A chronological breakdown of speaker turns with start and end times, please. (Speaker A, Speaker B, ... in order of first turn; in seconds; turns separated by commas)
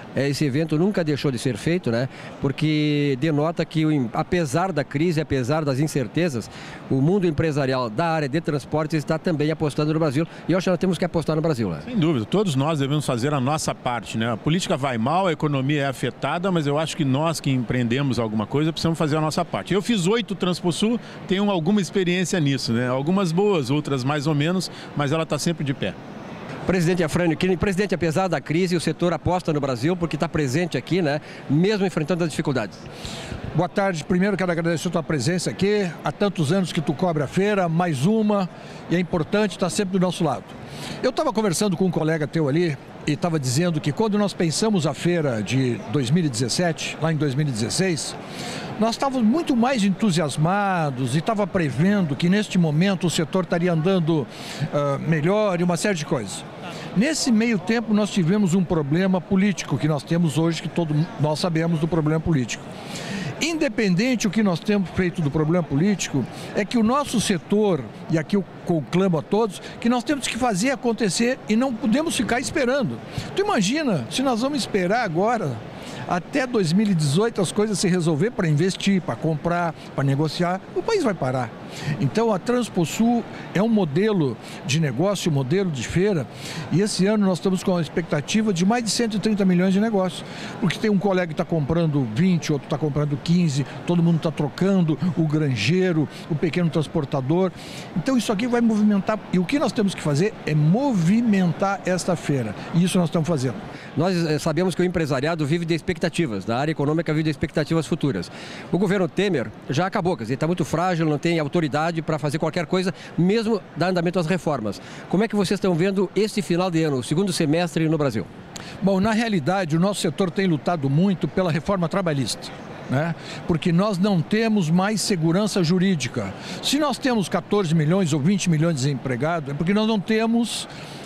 Speaker A: 0.1-11.8, Speaker B: 11.9-26.0, Speaker A: 26.7-32.8, Speaker C: 33.5-48.2, Speaker C: 48.8-62.7, Speaker C: 63.4-103.6, Speaker A: 104.0-118.3, Speaker C: 118.8-130.7